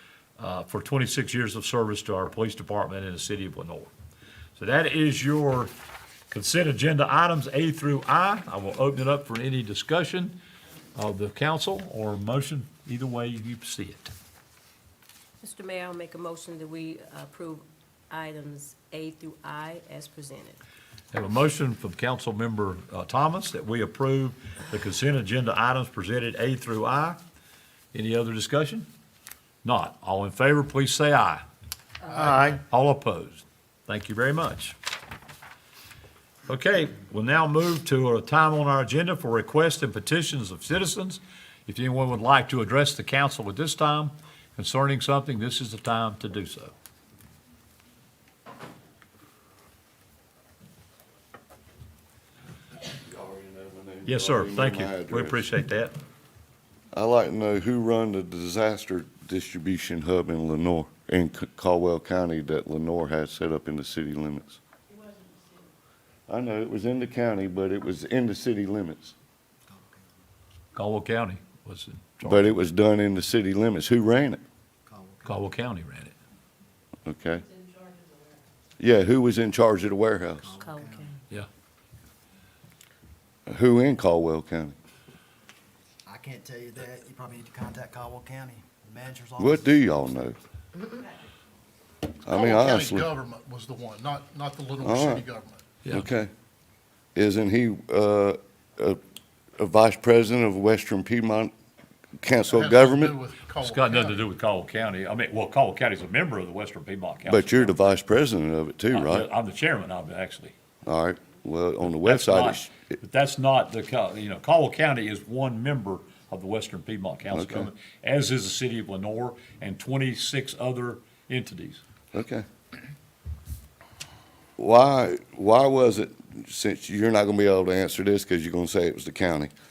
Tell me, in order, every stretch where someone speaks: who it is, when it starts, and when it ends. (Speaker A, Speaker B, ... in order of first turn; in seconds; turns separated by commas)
Speaker A: 0.4-3.9, Speaker A: 4.6-5.7, Speaker A: 6.3-10.4, Speaker A: 11.0-14.1, Speaker B: 15.4-20.6, Speaker A: 21.1-27.2, Speaker A: 27.9-28.9, Speaker A: 29.6-31.4, Speaker A: 32.2-34.8, Speaker A: 36.5-46.7, Speaker C: 53.0-55.4, Speaker A: 54.0-55.9, Speaker C: 56.9-64.6, Speaker C: 66.3-69.1, Speaker D: 69.7-70.0, Speaker A: 70.8-72.6, Speaker C: 72.2-74.4, Speaker D: 74.9-75.4, Speaker A: 75.2-76.2, Speaker C: 77.1-77.5, Speaker C: 78.8-80.6, Speaker D: 80.4-81.1, Speaker B: 80.6-81.2, Speaker C: 83.5-84.7, Speaker D: 86.1-89.6, Speaker C: 89.4-90.4, Speaker C: 92.3-93.1, Speaker E: 92.3-95.7, Speaker C: 94.8-95.2, Speaker C: 95.9-96.3, Speaker C: 97.2-99.0, Speaker C: 99.6-101.5, Speaker C: 102.2-103.2, Speaker E: 102.5-104.2, Speaker A: 103.6-107.7, Speaker C: 107.2-109.3, Speaker A: 108.9-110.5, Speaker C: 110.8-112.7, Speaker A: 112.0-121.8, Speaker C: 117.3-117.7, Speaker C: 122.1-122.5, Speaker C: 124.6-129.5